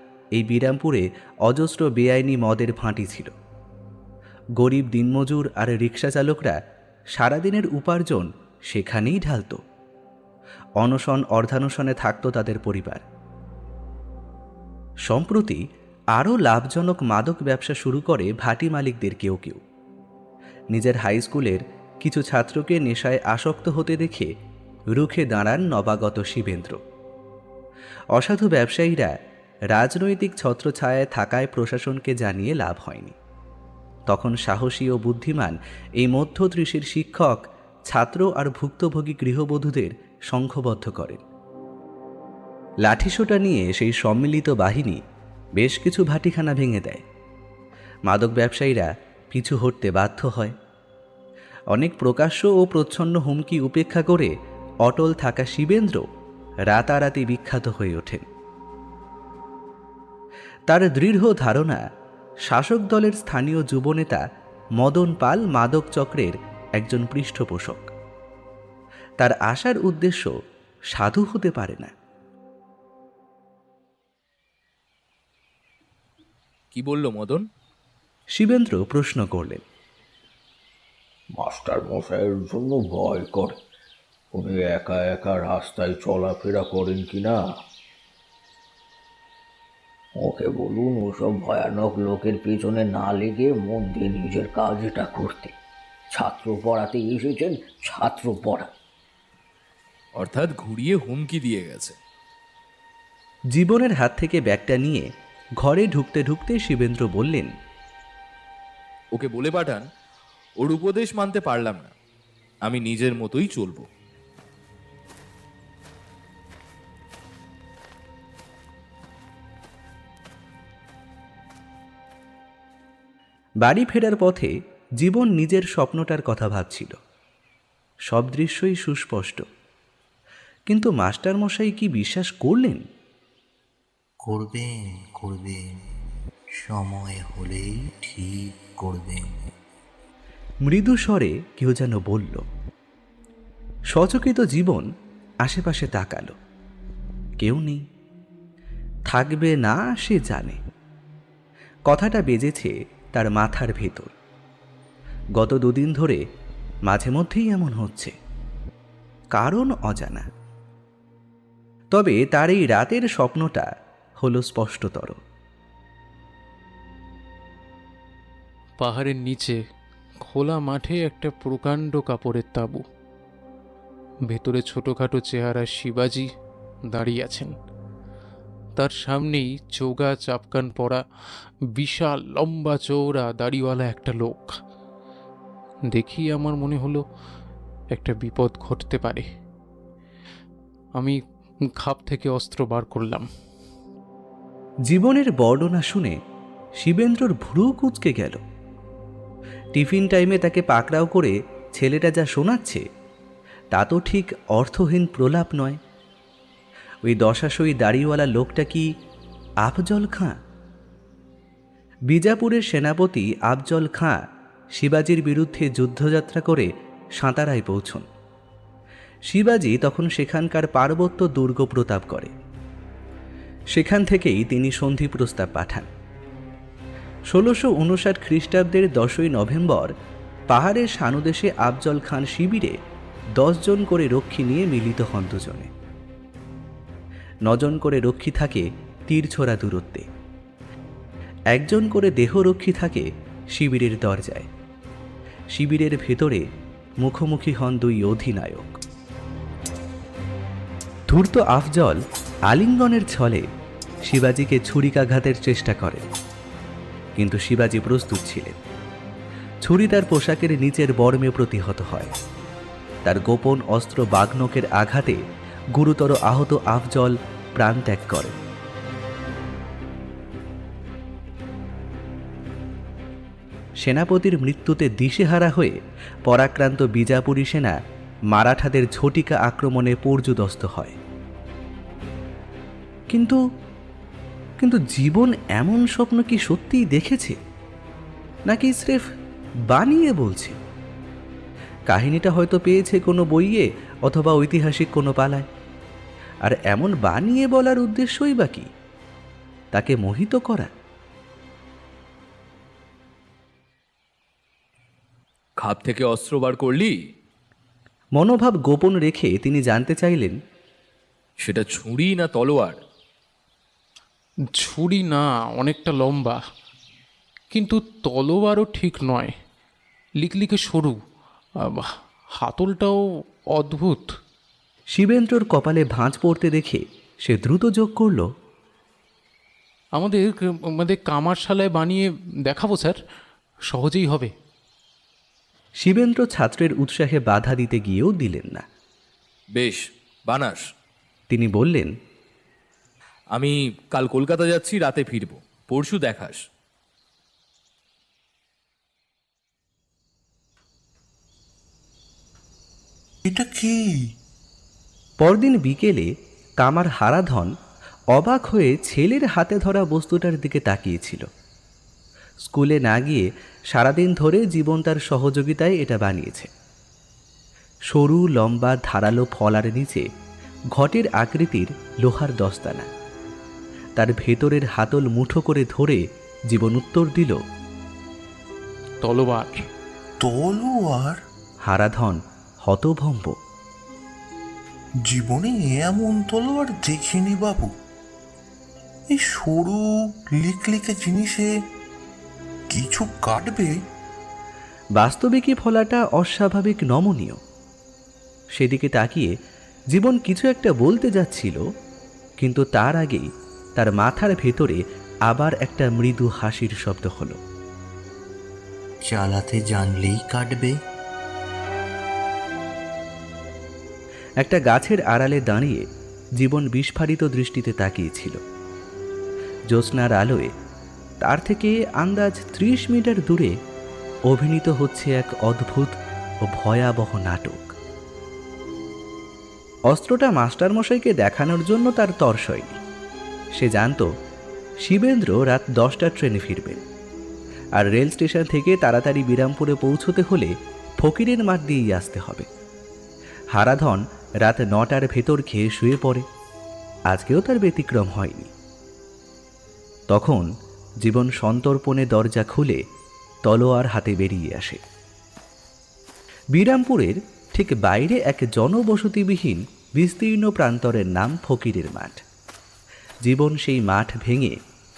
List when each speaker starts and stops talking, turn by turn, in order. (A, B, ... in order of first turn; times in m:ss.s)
0:00.3-0:03.3 A
0:04.6-0:06.6 A
0:07.1-0:09.6 A
0:10.8-0:13.0 A
0:15.0-0:15.6 A
0:16.1-0:19.6 A
0:20.7-0:24.3 A
0:24.9-0:26.8 A
0:28.1-0:29.1 A
0:29.7-0:33.2 A
0:34.1-0:41.2 A
0:42.8-0:45.0 A
0:45.6-0:47.0 A
0:48.1-0:50.5 A
0:51.7-0:54.3 A
0:54.8-0:56.0 A
0:56.7-0:58.3 A
1:00.7-1:01.8 A
1:02.4-1:04.2 A
1:04.8-1:07.9 A
1:09.2-1:10.3 A
1:10.9-1:11.9 A
1:16.7-1:17.4 B
1:18.3-1:19.6 A
1:21.3-1:23.6 C
1:24.3-1:27.5 C
1:30.2-1:35.5 C
1:36.1-1:38.7 C
1:40.2-1:42.0 B
1:43.5-1:45.1 A
1:45.6-1:47.5 A
1:49.1-1:49.8 B
1:50.6-1:51.9 B
1:52.6-1:53.8 B
2:03.6-2:07.0 A
2:08.1-2:09.4 A
2:10.7-2:12.8 A
2:14.3-2:15.8 D
2:16.6-2:19.5 D
2:20.6-2:22.4 A
2:23.9-2:24.9 A
2:25.4-2:26.3 A
2:27.4-2:27.8 A
2:29.1-2:30.6 A
2:31.9-2:34.1 A
2:35.4-2:36.2 A
2:36.9-2:38.1 A
2:39.3-2:40.3 A
2:41.9-2:45.2 A
2:48.8-2:49.6 E
2:50.3-2:52.8 E
2:54.3-2:56.3 E
2:56.9-2:57.5 E
2:58.8-3:01.0 E
3:01.8-3:04.6 E
3:05.9-3:07.0 E
3:07.9-3:09.2 E
3:11.8-3:13.3 E
3:14.9-3:16.2 A
3:16.8-3:18.4 A
3:19.7-3:22.8 A
3:23.7-3:25.8 A
3:27.0-3:28.9 A
3:29.6-3:30.4 A
3:32.1-3:34.2 A
3:34.8-3:38.1 A
3:39.3-3:42.3 A
3:43.7-3:45.9 A
3:47.3-3:49.9 A
3:50.5-3:52.8 A
3:53.4-3:55.7 A
3:57.4-4:00.1 A
4:01.5-4:04.5 A
4:05.5-4:06.4 A
4:07.0-4:08.8 A
4:11.1-4:13.4 A
4:14.0-4:16.0 A
4:17.2-4:18.6 A
4:19.6-4:22.1 A
4:23.0-4:25.2 A
4:25.7-4:28.4 A
4:33.8-4:37.8 A
4:38.3-4:41.0 A
4:43.1-4:43.4 A
4:44.6-4:47.4 A
4:48.5-4:49.0 A
4:49.7-4:50.6 A
4:51.9-4:55.5 A
4:56.4-4:58.7 A
4:59.7-5:00.7 A
5:05.6-5:06.9 B
5:08.2-5:10.4 A
5:11.4-5:12.8 B
5:14.6-5:16.4 E
5:17.5-5:19.3 E
5:20.2-5:21.0 E
5:21.6-5:23.0 E
5:23.5-5:24.1 E
5:24.9-5:28.3 A
5:30.0-5:33.0 E
5:33.7-5:34.3 E
5:35.8-5:38.6 A
5:39.5-5:40.6 B
5:41.3-5:41.9 A
5:43.3-5:46.4 B
5:53.3-5:53.8 D
5:55.2-5:57.5 A
5:58.1-6:01.2 A
6:02.4-6:06.5 A
6:07.9-6:10.0 A
6:10.7-6:12.9 A
6:14.0-6:17.4 A
6:19.0-6:19.6 E
6:20.2-6:21.1 D
6:21.6-6:23.4 A
6:25.1-6:27.7 D
6:29.2-6:29.8 D
6:30.4-6:31.4 D
6:32.7-6:33.7 D
6:35.0-6:37.4 A
6:38.5-6:39.3 A
6:39.9-6:41.6 A
6:42.4-6:47.4 A
6:49.1-6:50.7 D
6:54.4-6:55.8 A
6:56.4-6:58.4 A
6:59.7-7:00.5 A
7:01.2-7:03.5 A
7:04.3-7:07.7 A
7:09.9-7:12.8 A
7:13.5-7:14.1 A
7:14.8-7:16.8 A
7:17.8-7:22.5 A
7:23.5-7:26.2 A
7:27.1-7:28.5 A
7:30.1-7:30.5 A
7:31.0-7:32.8 A
7:33.4-7:34.8 A
7:36.5-7:42.2 A
7:43.2-7:44.6 A